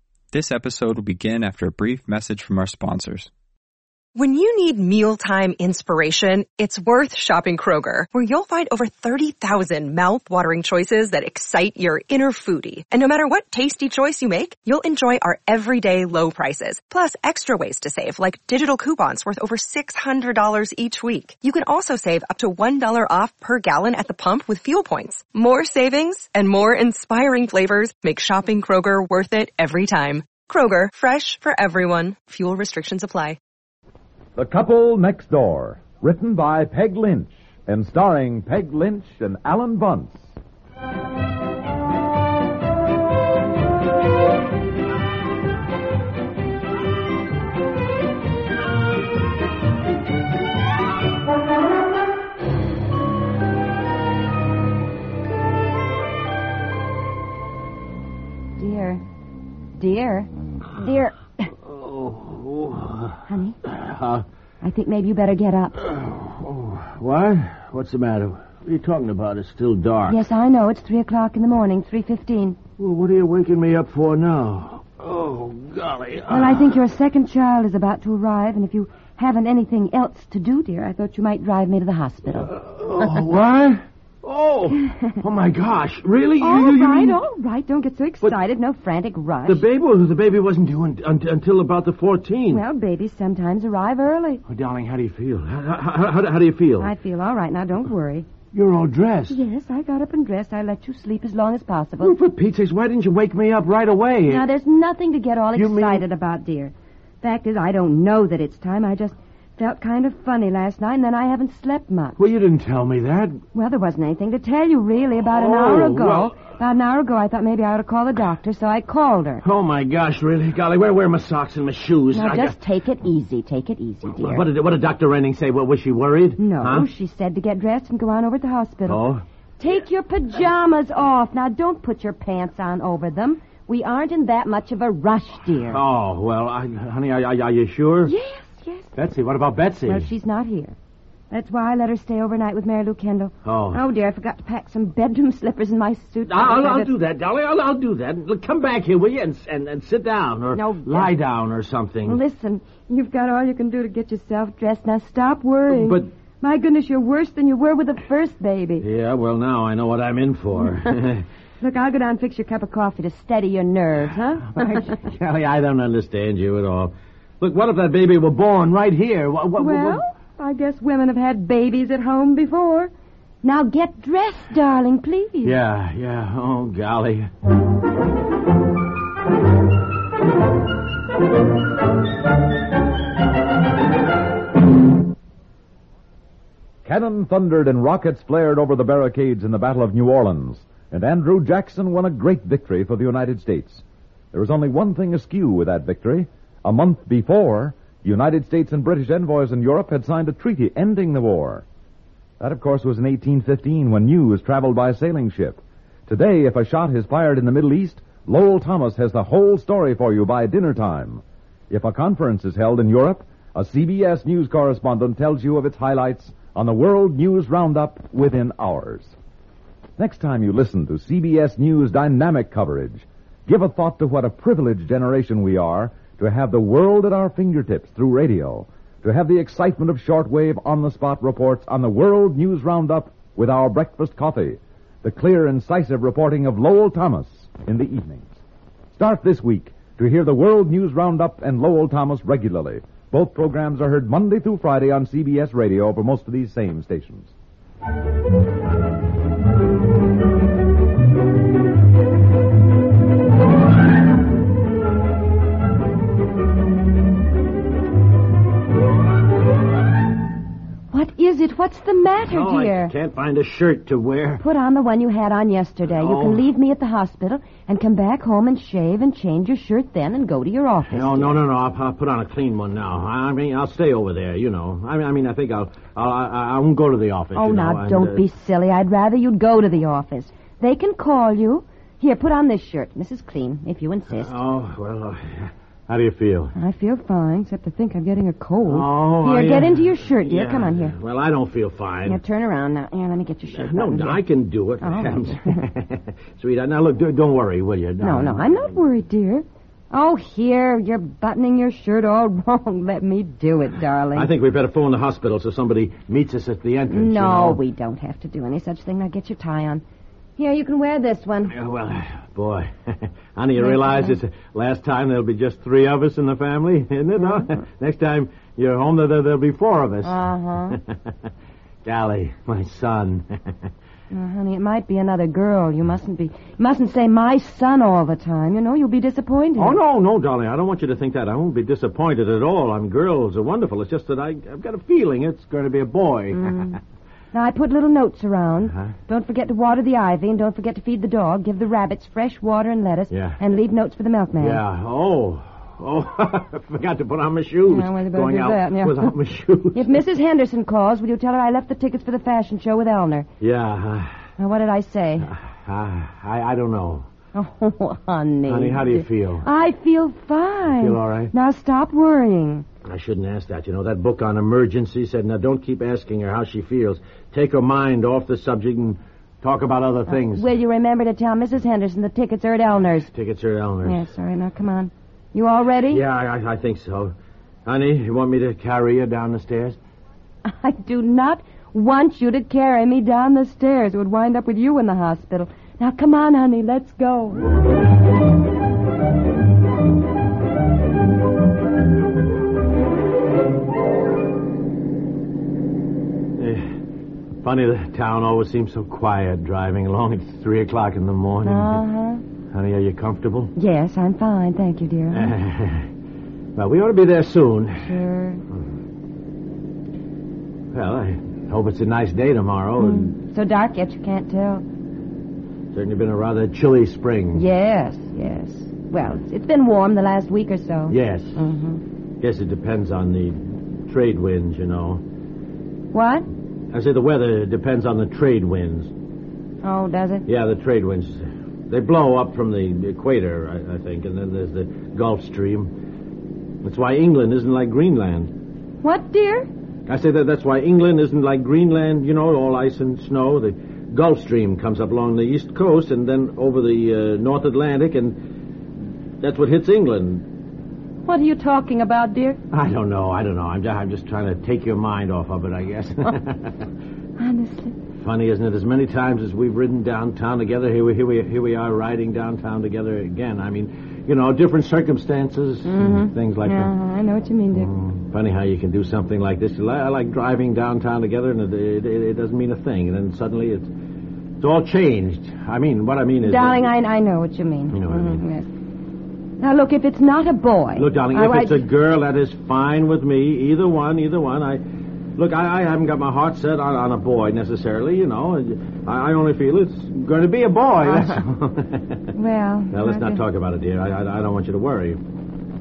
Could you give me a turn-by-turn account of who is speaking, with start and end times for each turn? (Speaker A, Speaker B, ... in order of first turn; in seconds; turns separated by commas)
Speaker A: 0.3-3.3, Speaker B: 4.2-33.4, Speaker C: 34.4-40.3, Speaker D: 58.6-59.0, Speaker D: 59.8-61.5, Speaker E: 61.6-64.2, Speaker D: 63.3-63.6, Speaker D: 64.6-65.8, Speaker E: 65.8-70.2, Speaker D: 70.1-72.6, Speaker E: 72.8-76.8, Speaker D: 76.3-82.5, Speaker E: 82.3-87.2, Speaker D: 84.9-85.2, Speaker D: 86.4-89.6, Speaker E: 89.5-92.6, Speaker D: 92.5-94.4, Speaker E: 94.5-96.9, Speaker D: 96.8-98.3, Speaker E: 98.5-99.4, Speaker D: 99.3-102.2, Speaker E: 102.0-104.5, Speaker D: 104.3-112.2, Speaker E: 105.5-106.0, Speaker E: 112.2-113.4, Speaker D: 113.5-119.4, Speaker E: 115.2-116.4, Speaker E: 119.4-122.6, Speaker D: 122.1-124.4, Speaker E: 124.0-126.9, Speaker D: 126.4-129.0, Speaker E: 128.8-129.2, Speaker D: 129.6-135.8, Speaker E: 135.7-138.1, Speaker D: 138.0-138.9, Speaker E: 138.9-140.1, Speaker D: 139.8-140.8, Speaker D: 141.3-146.9, Speaker E: 143.4-143.8, Speaker E: 146.2-152.2, Speaker D: 150.5-151.1, Speaker D: 152.0-158.8, Speaker E: 155.7-156.1, Speaker E: 158.8-161.2, Speaker D: 161.6-164.6, Speaker E: 164.4-170.0, Speaker D: 169.6-172.9, Speaker D: 173.4-175.6, Speaker E: 175.4-177.3, Speaker C: 186.8-201.7, Speaker C: 202.4-219.1, Speaker C: 220.0-238.4, Speaker C: 238.9-247.3, Speaker D: 260.9-262.9, Speaker E: 262.3-264.4, Speaker D: 264.4-271.4, Speaker E: 265.9-266.5, Speaker E: 270.9-278.2, Speaker D: 277.3-284.4, Speaker E: 284.1-286.5, Speaker D: 286.6-290.9, Speaker E: 288.6-292.2, Speaker D: 292.0-294.2, Speaker E: 293.5-298.8, Speaker D: 294.8-295.6, Speaker D: 298.0-304.3, Speaker E: 304.1-307.6, Speaker D: 306.9-309.8, Speaker D: 310.4-311.6, Speaker E: 311.5-320.2, Speaker D: 313.6-314.2, Speaker D: 320.0-320.8, Speaker E: 321.8-323.6, Speaker D: 324.1-329.8, Speaker E: 329.6-336.8, Speaker D: 336.5-336.7, Speaker D: 337.3-344.6, Speaker E: 343.1-343.4, Speaker E: 344.4-350.0, Speaker D: 347.6-349.1, Speaker D: 349.7-353.3, Speaker E: 353.4-354.2, Speaker D: 354.4-355.3, Speaker E: 355.2-357.1, Speaker D: 357.3-362.6, Speaker E: 358.4-359.4, Speaker E: 360.7-361.3, Speaker E: 362.8-370.5, Speaker D: 370.1-373.1, Speaker E: 373.1-374.1, Speaker D: 373.8-376.0, Speaker E: 375.9-377.1, Speaker E: 377.6-379.8, Speaker D: 380.4-387.4, Speaker E: 396.4-396.7, Speaker E: 397.4-401.8, Speaker D: 401.4-402.2, Speaker E: 402.5-403.5, Speaker D: 403.6-405.3, Speaker E: 405.1-405.9, Speaker E: 406.6-407.9, Speaker D: 407.8-408.4, Speaker E: 410.7-413.1, Speaker D: 412.8-414.6, Speaker E: 415.7-417.4, Speaker D: 417.3-421.8, Speaker E: 420.9-421.4, Speaker E: 422.2-425.0, Speaker D: 425.9-426.3, Speaker E: 426.7-428.9, Speaker D: 429.6-430.2, Speaker E: 430.2-435.7, Speaker E: 436.6-438.3, Speaker D: 438.8-439.5, Speaker E: 439.9-448.2, Speaker E: 449.2-450.2, Speaker D: 451.0-452.4, Speaker E: 452.5-456.7, Speaker D: 457.2-457.7, Speaker E: 458.0-466.7, Speaker D: 465.6-467.7, Speaker E: 467.5-473.7, Speaker E: 474.4-476.7, Speaker D: 476.2-478.5, Speaker E: 477.7-478.2, Speaker D: 479.4-481.6, Speaker E: 480.8-484.6, Speaker E: 485.1-492.0, Speaker D: 490.9-491.1, Speaker D: 492.1-493.2, Speaker E: 492.7-495.0